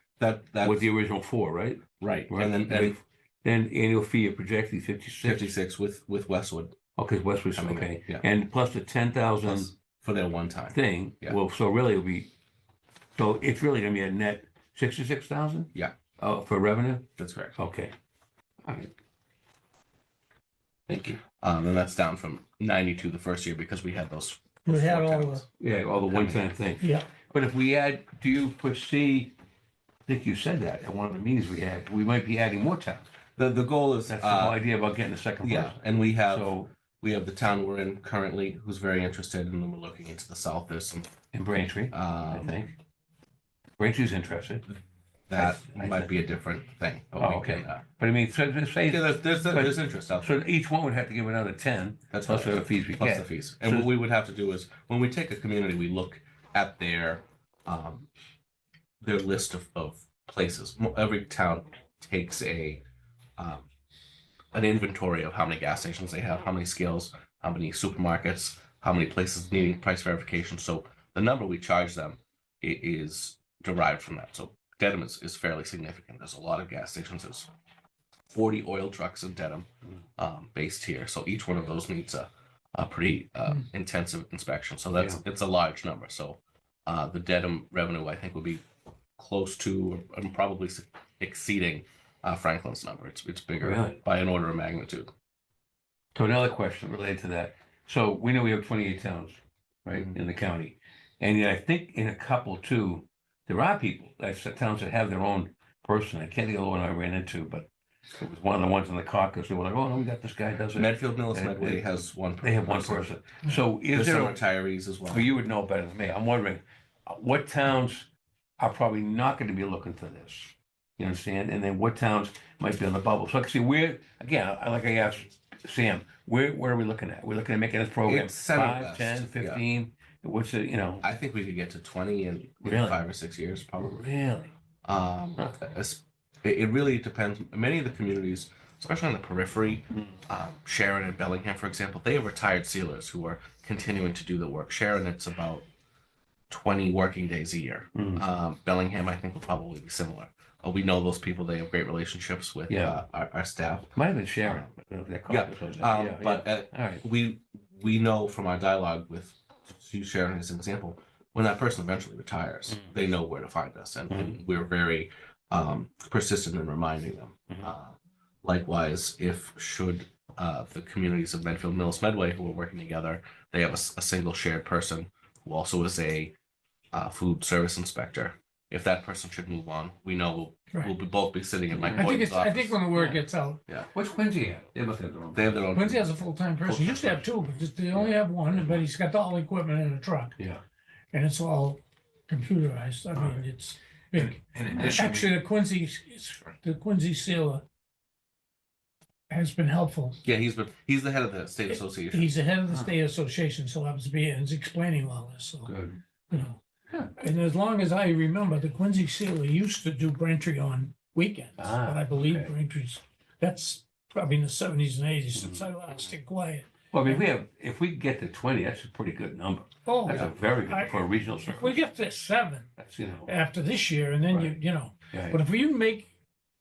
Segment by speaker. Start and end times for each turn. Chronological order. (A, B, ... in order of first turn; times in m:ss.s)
0:00.2-0:00.9 A
0:00.6-0:05.5 B
0:02.0-0:03.0 A
0:05.2-0:06.8 A
0:07.0-0:09.7 B
0:07.5-0:08.2 A
0:09.4-0:11.4 A
0:10.7-0:12.3 B
0:13.2-0:17.9 B
0:17.2-0:17.6 A
0:18.6-0:18.9 B
0:20.9-0:21.2 B
0:21.4-0:25.4 A
0:24.7-0:25.4 C
0:25.6-0:29.3 B
0:26.1-0:26.5 A
0:26.8-0:27.1 C
0:30.0-0:33.1 B
0:33.4-0:34.6 A
0:34.2-0:36.7 B
0:35.4-0:41.1 A
0:41.3-0:42.7 B
0:41.9-0:42.6 A
0:43.8-0:44.7 B
0:45.3-0:47.8 A
0:45.4-0:46.1 B
0:47.2-0:53.9 B
0:48.8-0:50.4 A
0:52.1-0:58.1 A
0:59.0-1:02.8 A
1:03.4-1:03.7 A
1:04.5-1:17.5 A
1:18.3-1:19.7 A
1:20.2-1:28.6 A
1:24.9-1:25.2 B
1:29.2-1:35.1 A
1:33.6-1:34.0 B
1:36.1-1:51.9 B
1:50.7-1:55.3 A
1:52.4-1:54.4 B
1:55.1-1:58.1 B
1:58.6-2:11.0 B
2:08.0-2:09.6 A
2:11.0-2:14.0 A
2:12.6-2:13.0 B
2:13.8-2:14.5 B
2:14.8-2:25.6 A
2:26.5-2:33.9 A
2:27.9-2:28.2 B
2:32.7-2:33.0 B
2:33.9-2:37.0 B
2:35.3-2:56.3 A
2:42.7-2:42.9 B
2:44.1-2:44.4 B
2:56.9-3:02.8 A
3:01.7-3:02.3 B
3:01.9-3:03.6 C
3:02.9-3:03.2 B
3:03.9-3:05.7 B
3:05.3-3:06.1 A
3:05.7-3:10.4 C
3:06.6-3:07.3 B
3:07.9-3:08.8 B
3:11.1-3:17.6 C
3:13.2-3:13.4 B
3:14.1-3:15.3 B
3:19.3-3:20.2 C
3:20.2-3:22.3 A
3:21.7-3:25.7 C
3:22.7-3:22.9 B
3:25.6-3:26.0 B
3:26.3-3:26.6 C
3:27.2-3:37.2 C
3:31.6-3:32.5 B
3:35.4-3:35.7 B
3:36.9-3:41.8 B
3:39.9-3:42.7 C
3:42.8-3:43.3 B
3:43.2-3:46.1 C
3:44.3-3:44.6 B
3:45.1-3:45.4 B